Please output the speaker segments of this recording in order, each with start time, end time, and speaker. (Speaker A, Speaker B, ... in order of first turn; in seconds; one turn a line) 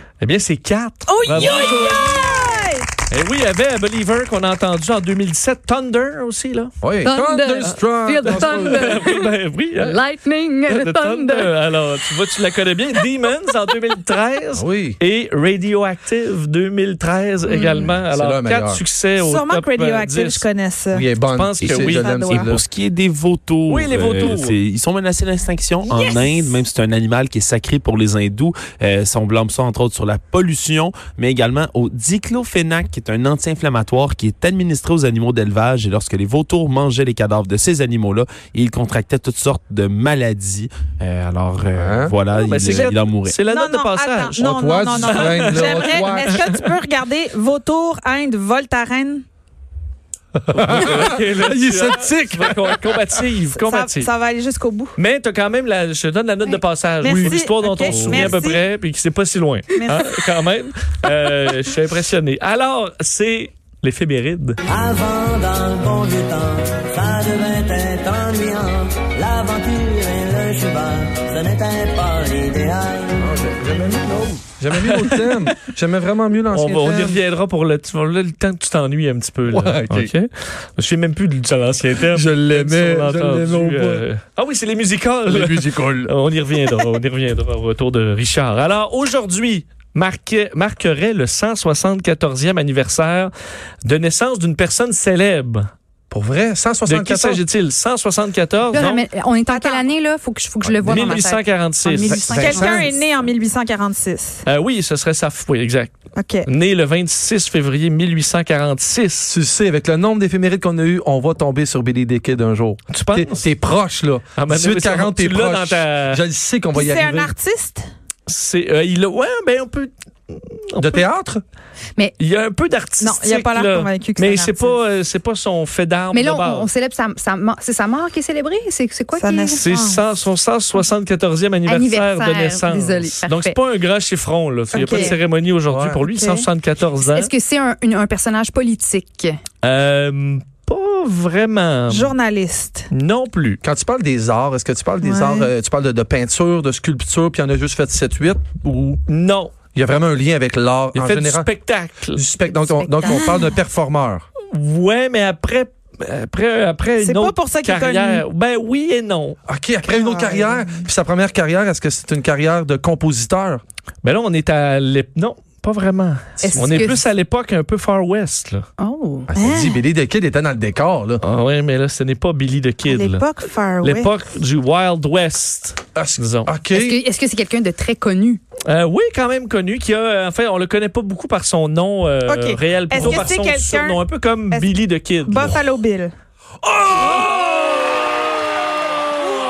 Speaker A: 0.2-2.4
Speaker B: 1.1-2.9
Speaker A: 3.1-6.7
Speaker C: 6.8-9.0
Speaker D: 7.0-11.5
Speaker A: 7.7-10.0
Speaker A: 10.7-20.5
Speaker C: 14.5-15.0
Speaker D: 17.4-17.9
Speaker C: 18.1-18.8
Speaker B: 19.2-21.1
Speaker C: 20.9-22.6
Speaker A: 21.2-22.1
Speaker E: 21.6-43.4
Speaker B: 21.7-22.6
Speaker A: 23.7-24.6
Speaker B: 25.8-26.5
Speaker C: 41.7-42.1
Speaker A: 42.4-46.6
Speaker B: 42.6-49.2
Speaker C: 44.4-46.4
Speaker C: 50.5-53.1
Speaker A: 50.5-54.1
Speaker B: 53.5-55.0
Speaker A: 55.0-64.6
Speaker B: 56.5-58.6
Speaker C: 57.0-58.3
Speaker B: 59.7-60.1
Speaker F: 64.7-65.0
Speaker E: 64.9-71.5
Speaker F: 66.1-66.5
Speaker F: 68.9-69.4
Speaker F: 70.8-72.9
Speaker E: 72.4-73.0
Speaker C: 73.2-77.2
Speaker A: 74.7-75.5
Speaker A: 76.5-93.3
Speaker C: 79.5-80.1
Speaker C: 82.1-84.0
Speaker C: 85.3-86.1
Speaker A: 93.8-95.7
Speaker C: 96.1-97.4
Speaker A: 96.8-99.0
Speaker D: 98.7-103.0
Speaker B: 99.5-99.8
Speaker C: 100.6-101.2
Speaker A: 100.8-102.6
Speaker C: 102.1-102.9
Speaker B: 102.4-104.4
Speaker A: 104.4-105.9
Speaker B: 106.2-106.5
Speaker A: 106.4-109.3
Speaker C: 109.3-117.3
Speaker A: 112.9-113.5
Speaker A: 114.3-116.2
Speaker B: 116.7-117.8
Speaker A: 118.3-121.0
Speaker C: 120.8-121.4
Speaker A: 122.2-126.7
Speaker B: 123.0-124.8
Speaker D: 126.1-129.6
Speaker B: 129.1-130.0
Speaker A: 129.5-137.3
Speaker D: 131.7-133.6
Speaker B: 134.7-135.2
Speaker D: 134.8-135.1
Speaker C: 135.7-136.0
Speaker B: 136.1-136.4
Speaker D: 137.0-139.4
Speaker A: 139.6-142.1
Speaker B: 141.9-142.9
Speaker A: 142.9-143.6
Speaker C: 143.6-149.0
Speaker B: 145.0-145.5
Speaker A: 149.1-149.5
Speaker C: 149.7-151.5
Speaker A: 150.9-152.2
Speaker C: 152.1-154.2
Speaker D: 152.4-153.4
Speaker B: 153.1-153.4
Speaker A: 154.5-159.4
Speaker B: 157.0-158.2
Speaker C: 159.5-163.6
Speaker B: 159.8-160.8
Speaker A: 164.0-168.7
Speaker D: 166.4-167.0
Speaker D: 168.8-169.3
Speaker C: 169.3-171.2
Speaker B: 169.3-169.8
Speaker A: 171.2-173.3
Speaker B: 172.8-174.1
Speaker A: 173.8-176.5
Speaker C: 175.9-177.0
Speaker D: 176.7-178.4
Speaker A: 178.7-185.6
Speaker B: 182.2-186.1
Speaker D: 183.0-183.3
Speaker C: 186.6-187.7